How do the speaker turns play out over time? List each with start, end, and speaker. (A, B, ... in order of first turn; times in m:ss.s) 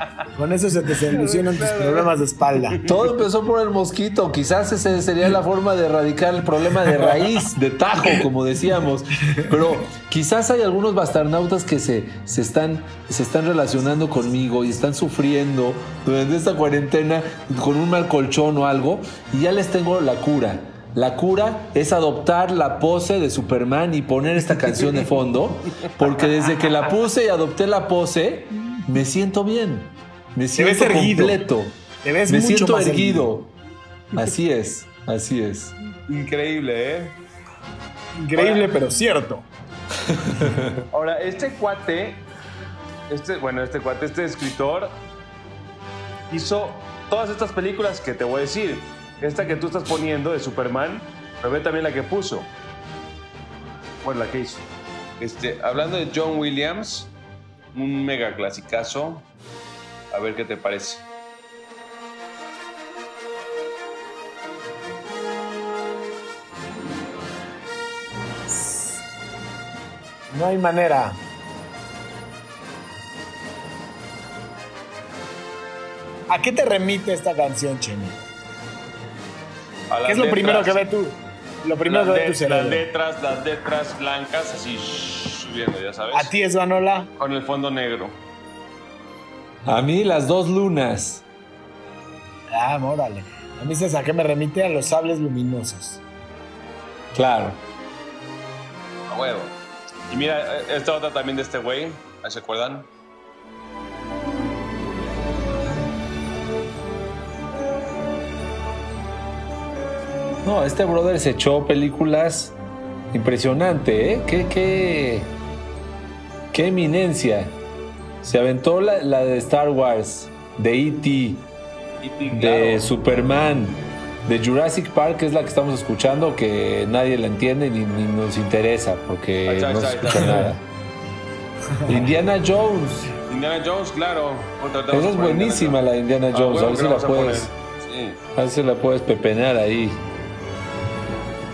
0:00.3-0:02.8 A
0:01.1-0:03.0 B
0:02.8-0:33.6 C
0:30.6-0:31.4 A
0:32.0-0:33.3 A
0:34.1-0:35.7 C
0:36.1-0:37.1 B
0:38.1-0:39.4 A
0:38.3-0:38.7 B
0:40.0-0:40.8 C
0:40.9-0:42.2 B
0:43.1-0:45.0 B
0:46.3-0:52.5 B
0:54.0-0:54.6 B
0:55.2-0:57.1 B
0:57.7-0:59.3 B
1:00.1-1:01.0 B
1:08.5-1:09.0 A
1:10.3-1:11.2 A
1:16.3-1:18.2 A
1:19.9-1:20.8 B
1:20.0-1:22.8 A
1:21.8-1:26.3 B
1:26.1-1:27.1 A
1:27.2-1:28.2 B
1:29.6-1:31.2 C
1:32.5-1:36.0 A
1:37.1-1:37.6 C
1:39.1-1:39.6 B
1:40.1-1:42.9 B
1:50.4-1:52.6 C
1:53.1-1:55.3 C
1:56.5-1:57.6 C
1:58.2-2:01.5 C
2:02.0-2:02.8 B
2:02.3-2:10.6 C
2:09.4-2:10.5 B
2:11.8-2:12.0 A
2:11.8-2:13.1 C
2:13.3-2:15.8 B
2:14.9-2:17.5 C
2:16.3-2:18.2 B
2:18.3-2:20.0 C